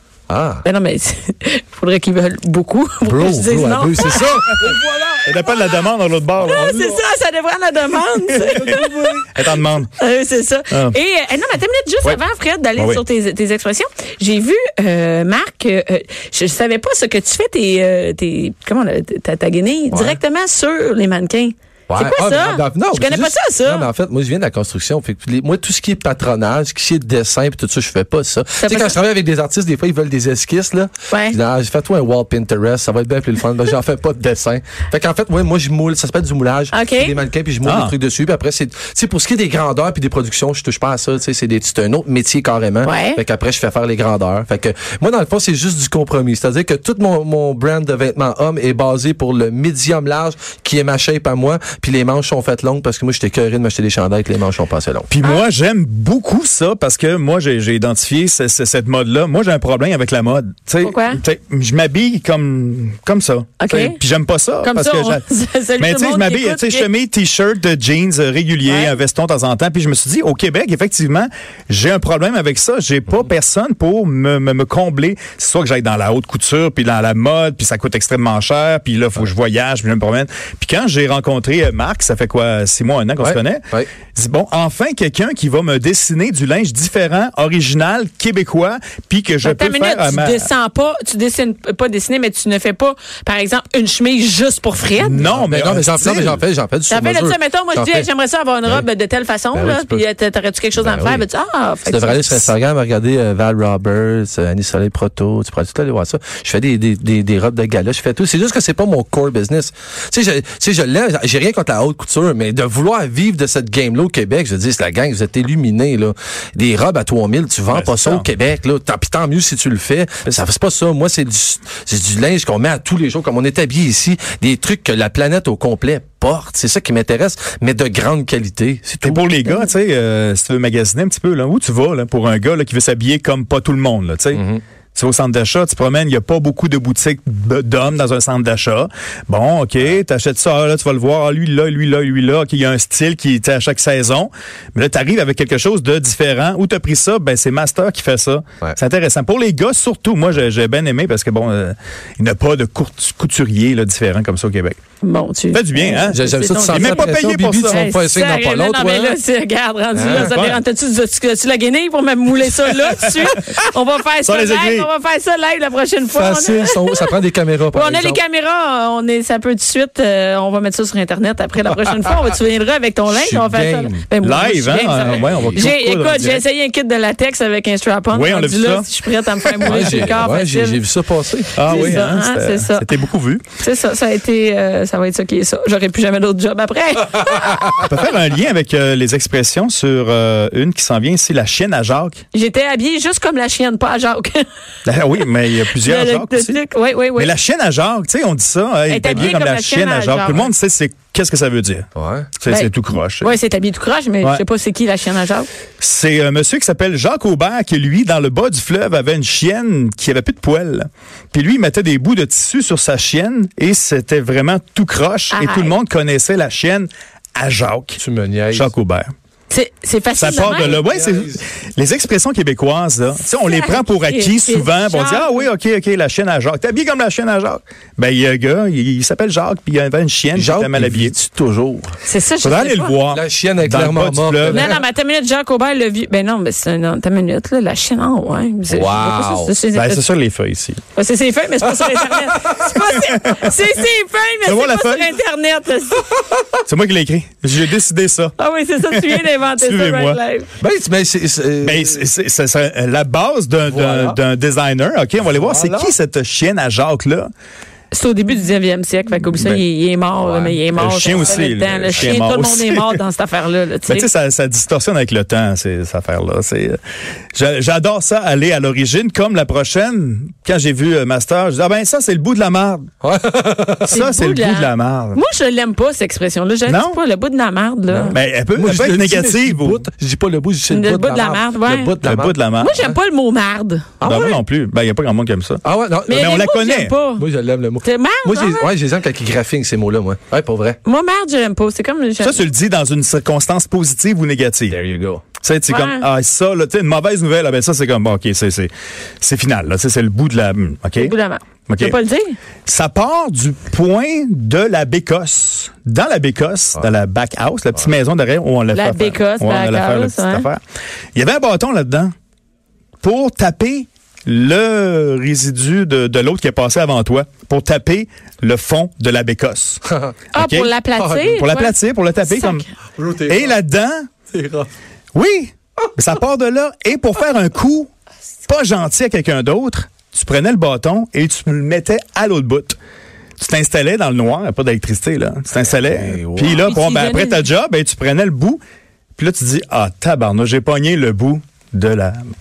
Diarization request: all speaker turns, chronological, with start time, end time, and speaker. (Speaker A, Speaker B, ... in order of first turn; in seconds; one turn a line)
Speaker A: 0.3-0.6
Speaker B: 0.6-4.7
Speaker A: 3.0-5.3
Speaker C: 5.2-6.8
Speaker B: 5.3-5.7
Speaker A: 6.4-7.0
Speaker B: 6.4-8.9
Speaker C: 8.3-9.9
Speaker A: 8.6-9.2
Speaker B: 9.9-23.9
Speaker C: 10.7-10.9
Speaker C: 12.8-13.0
Speaker A: 19.9-20.2
Speaker A: 21.9-55.1
Speaker B: 28.6-28.9
Speaker B: 31.1-31.4
Speaker B: 36.7-37.1
Speaker C: 37.6-37.9
Speaker B: 42.8-43.2
Speaker C: 55.1-65.2
Speaker B: 60.8-61.2
Speaker B: 63.6-64.0
Speaker B: 64.6-66.9
Speaker C: 65.8-90.5
Speaker B: 68.6-68.9
Speaker A: 83.2-83.9
Speaker B: 89.4-95.3
Speaker C: 95.0-96.4
Speaker A: 95.3-98.1
Speaker B: 96.9-102.5
Speaker A: 99.5-100.0
Speaker A: 100.8-101.2
Speaker A: 101.8-129.2
Speaker C: 117.7-118.3
Speaker C: 129.0-134.4
Speaker A: 134.3-134.6
Speaker C: 134.9-154.8
Speaker B: 155.0-167.1
Speaker C: 155.5-157.9
Speaker A: 156.1-159.2
Speaker A: 159.9-160.4
Speaker C: 160.1-160.6
Speaker C: 162.8-163.4
Speaker C: 164.2-164.9
Speaker A: 166.1-168.2
Speaker B: 167.7-180.8
Speaker A: 173.1-174.1
Speaker C: 174.2-176.4
Speaker A: 175.0-175.7
Speaker C: 178.1-180.1
Speaker A: 179.6-182.1
Speaker C: 181.6-183.4
Speaker B: 181.6-183.0
Speaker B: 183.6-187.8
Speaker C: 187.8-192.2
Speaker B: 192.3-194.4
Speaker C: 194.8-196.6
Speaker B: 195.7-197.3
Speaker C: 197.2-203.3
Speaker B: 198.9-200.5
Speaker A: 202.0-202.3
Speaker B: 202.5-205.5
Speaker C: 205.8-218.0
Speaker B: 215.3-215.7
Speaker A: 218.0-218.7
Speaker C: 218.5-219.1
Speaker B: 219.5-220.8
Speaker C: 220.2-231.1
Speaker A: 220.2-221.4
Speaker B: 223.4-225.5
Speaker A: 230.3-231.9
Speaker B: 232.0-232.9
Speaker C: 232.4-234.6
Speaker A: 233.1-234.8
Speaker B: 234.5-240.1
Speaker A: 238.7-239.5
Speaker C: 239.7-240.8
Speaker B: 240.9-246.0
Speaker A: 241.7-242.9
Speaker C: 243.1-243.5
Speaker C: 244.4-245.2
Speaker C: 246.7-250.2
Speaker B: 248.4-250.5
Speaker A: 250.6-252.0
Speaker C: 251.6-257.3
Speaker A: 253.6-254.2
Speaker A: 255.2-255.9
Speaker B: 257.9-264.1
Speaker A: 260.2-261.4
Speaker C: 260.7-263.0
Speaker C: 263.9-266.8
Speaker C: 267.3-272.9
Speaker A: 273.0-274.0
Speaker C: 273.9-275.2
Speaker B: 273.9-278.2
Speaker C: 276.7-277.0
Speaker A: 277.9-282.9
Speaker C: 278.1-279.9
Speaker B: 280.7-281.9
Speaker C: 282.0-282.8
Speaker B: 282.6-283.9
Speaker A: 284.0-284.4
Speaker C: 284.0-286.9
Speaker A: 285.6-286.3
Speaker B: 286.1-287.2
Speaker A: 287.2-290.8
Speaker B: 287.8-288.7
Speaker B: 290.8-292.4
Speaker C: 292.2-294.8
Speaker A: 294.7-295.2
Speaker C: 295.4-301.1
Speaker B: 295.7-296.1
Speaker B: 300.9-302.4
Speaker C: 301.7-302.0
Speaker C: 302.6-310.6
Speaker B: 308.7-310.5
Speaker C: 311.1-312.1
Speaker C: 313.0-319.8
Speaker A: 319.9-320.2
Speaker B: 320.3-322.6
Speaker C: 320.3-322.6
Speaker A: 321.0-321.4
Speaker A: 323.0-323.6
Speaker C: 323.2-324.1
Speaker A: 324.3-324.7
Speaker C: 325.1-327.9
Speaker C: 328.5-332.8
Speaker C: 333.4-338.6
Speaker A: 335.7-336.6
Speaker B: 336.4-337.4
Speaker C: 339.2-342.2